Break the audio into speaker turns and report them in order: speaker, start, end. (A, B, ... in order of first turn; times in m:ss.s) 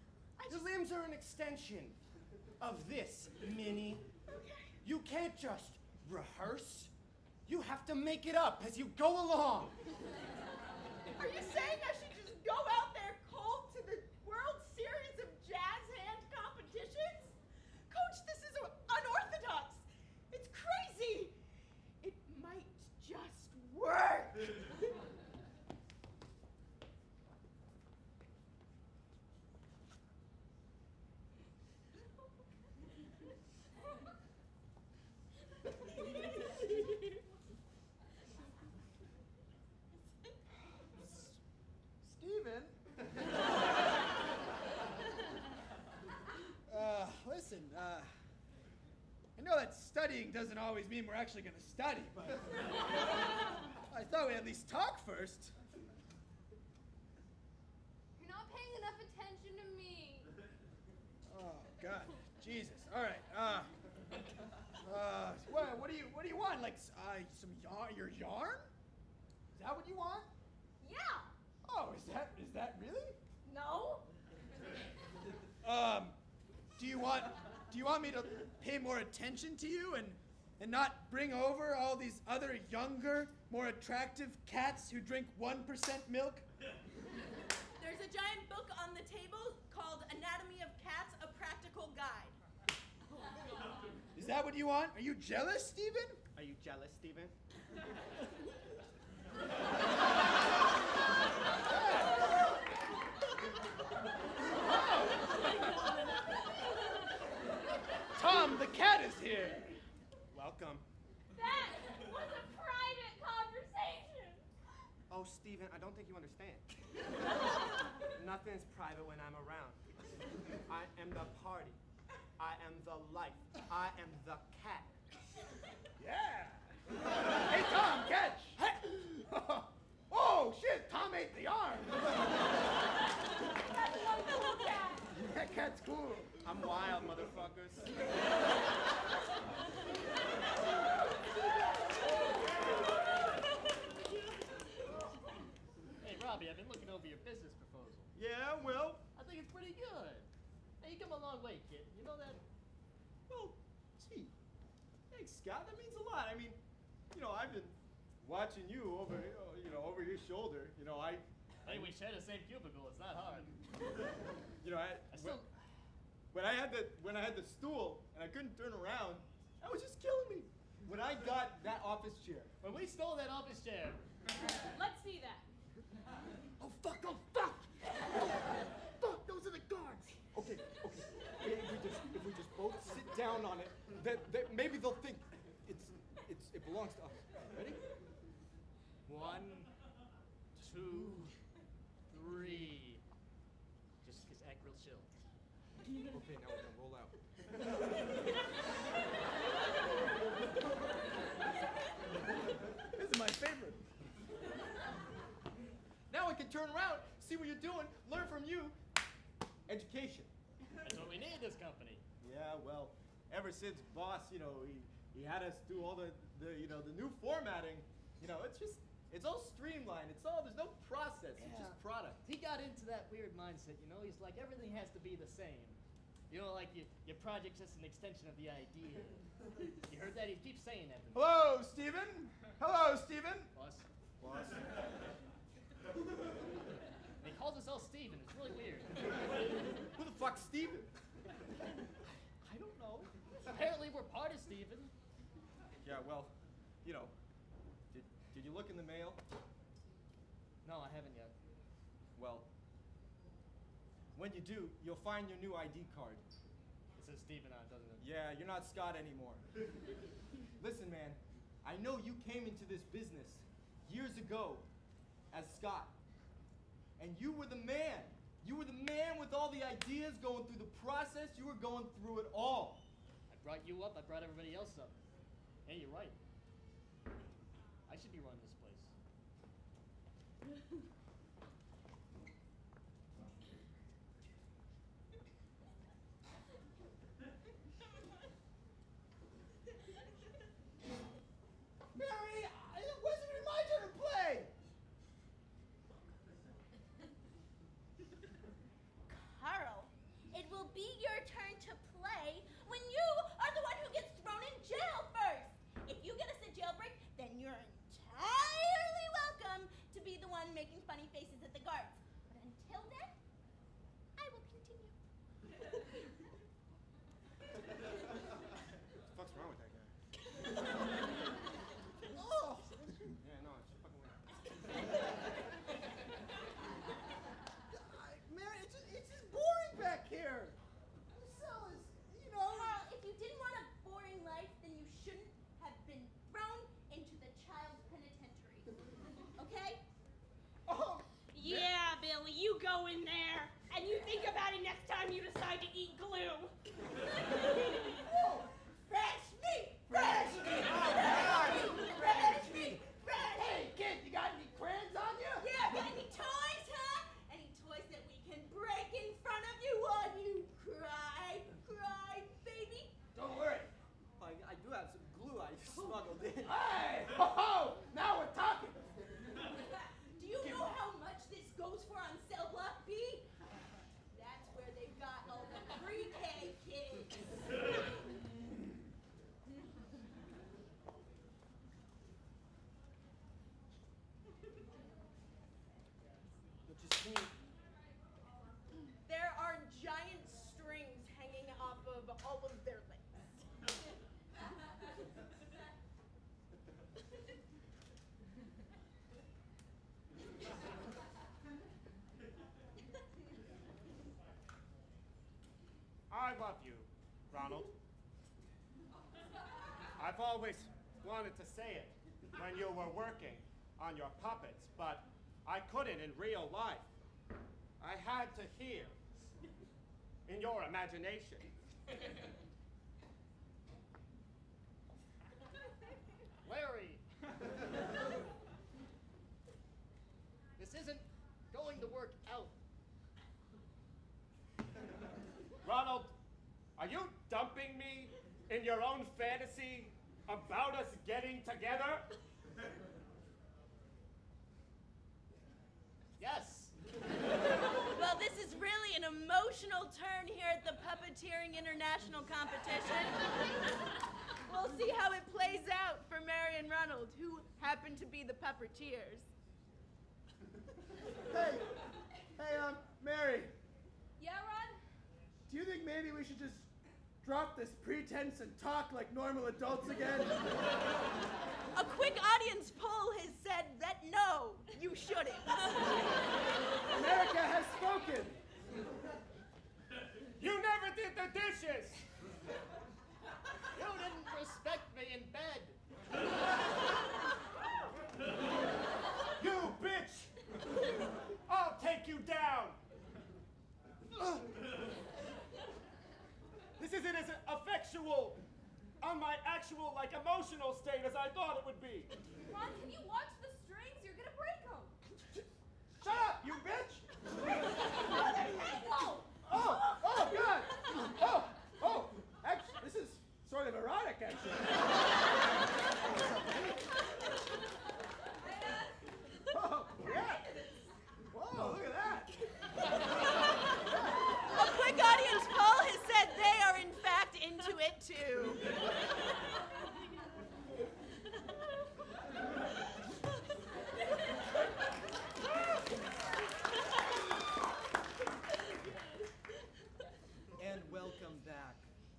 0:00.4-0:00.7 A
0:00.5-0:02.0 B
0:02.6-0:04.0 B
0:04.3-0:04.7 A
0:04.8-0:06.9 B
0:07.5-0:09.8 B
0:11.2-0:17.3 A
0:17.9-0:21.4 A
0:22.0-0:24.7 A
0:41.0-0:41.3 C
0:42.0-0:42.8 C
0:46.7-0:48.1 C
0:49.4-0:53.0 C
0:53.7-0:55.5 C
0:58.2-1:00.3 D
1:01.2-1:03.7 C
1:04.8-1:08.7 C
1:09.5-1:10.3 C
1:10.8-1:11.3 D
1:11.6-1:13.2 C
1:13.5-1:13.9 A
1:13.5-1:14.0 D
1:15.6-1:16.2 C
1:16.8-1:26.4 C
1:27.8-1:32.3 A
1:34.1-1:36.2 C
1:36.3-1:37.3 B
1:41.6-1:42.3 C
1:44.5-1:45.9 C
1:48.1-1:49.8 C
1:50.3-1:50.8 B
1:51.3-1:54.4 D
1:55.1-1:56.7 B
1:58.1-1:59.8 B
2:00.7-2:01.8 B
2:02.4-2:05.0 B
2:06.0-2:06.7 C
2:07.4-2:12.1 C
2:13.9-2:15.0 D
2:15.1-2:16.3 C
2:16.4-2:18.1 B
2:26.0-2:28.1 E
2:28.1-2:29.0 F
2:29.2-2:30.3 E
2:30.8-2:32.4 E
2:33.3-2:34.3 F
2:35.1-2:36.6 F
2:37.1-2:41.9 F
2:41.6-2:43.5 E
2:44.6-2:45.5 F
2:45.1-2:45.5 E
2:46.3-2:52.5 F
2:52.6-2:54.0 E
2:54.7-2:55.5 D
2:56.6-2:57.6 F
3:00.3-3:07.8 F
3:09.0-3:09.7 E
3:10.6-3:11.3 F
3:10.6-3:11.3 E
3:12.1-3:13.0 E
3:14.0-3:15.1 E
3:16.0-3:17.2 F
3:22.9-3:23.8 C
3:26.1-3:28.8 F
3:29.7-3:30.3 F
3:30.8-3:32.0 E
3:32.2-3:42.2 F
3:41.4-3:49.2 E
3:49.9-3:51.3 E
3:51.1-3:53.5 C
3:53.5-3:53.8 E
3:54.2-3:54.8 F
3:57.2-3:59.0 E
3:59.9-4:00.9 F
4:02.4-4:03.1 F
4:03.4-4:04.9 E
4:05.8-4:07.1 F
4:07.9-4:09.2 F
4:10.6-4:11.3 E
4:12.2-4:12.5 F
4:14.1-4:16.2 F
4:17.0-4:18.0 E
4:18.0-4:19.4 F
4:20.6-4:24.7 F
4:25.3-4:26.0 F
4:27.0-4:32.8 F
4:33.3-4:34.9 E
4:35.6-4:36.2 E
4:37.9-4:38.9 E
4:51.9-4:54.5 C
4:59.1-5:13.2 A
5:14.2-5:14.9 A
5:19.1-5:19.9 B
5:22.1-5:23.2 C
5:23.2-5:24.3 B
5:27.7-5:30.6 C
5:31.1-5:32.9 C
5:32.5-5:38.7 A
5:39.4-5:39.8 A
5:40.7-5:41.7 C
5:41.3-5:46.5 D
5:48.0-5:48.5 C
5:48.7-5:53.7 A
5:49.9-5:55.5 C
5:55.4-6:03.0 A
6:03.1-6:03.7 C
6:04.2-6:06.5 F
6:06.4-6:09.0 C
6:10.1-6:13.3 A
6:10.4-6:10.8 C
6:14.1-6:17.2 A
6:26.6-6:27.3 B
6:29.0-6:33.2 A
6:46.1-6:47.8 B
6:50.0-6:56.9 B
6:57.8-6:58.9 B
7:00.2-7:01.5 B
7:06.4-7:07.0 E
7:10.6-7:12.5 E
7:15.6-7:16.2 B
7:16.8-7:22.1 B
7:26.2-7:26.7 E
7:27.8-7:33.5 A
7:34.4-7:39.3 A
7:41.2-7:41.7 C
7:42.3-7:43.5 C
7:44.2-7:44.8 D
7:45.5-7:46.7 C
7:47.2-7:50.4 C
7:51.7-7:55.6 A
7:56.9-7:58.4 C
8:00.4-8:02.0 B
8:03.7-8:05.8 E
8:09.4-8:10.3 B
8:11.4-8:12.8 B
8:14.1-8:14.5 B
8:16.8-8:18.4 B
8:19.0-8:22.1 B
8:22.4-8:24.9 D
8:26.0-8:27.1 C
8:28.4-8:30.0 D
8:29.4-8:34.9 C
8:36.0-8:36.9 C
8:39.5-8:40.5 C
8:41.3-8:42.3 C
8:43.6-8:44.3 C
8:44.5-8:48.6 A
9:00.6-9:01.9 F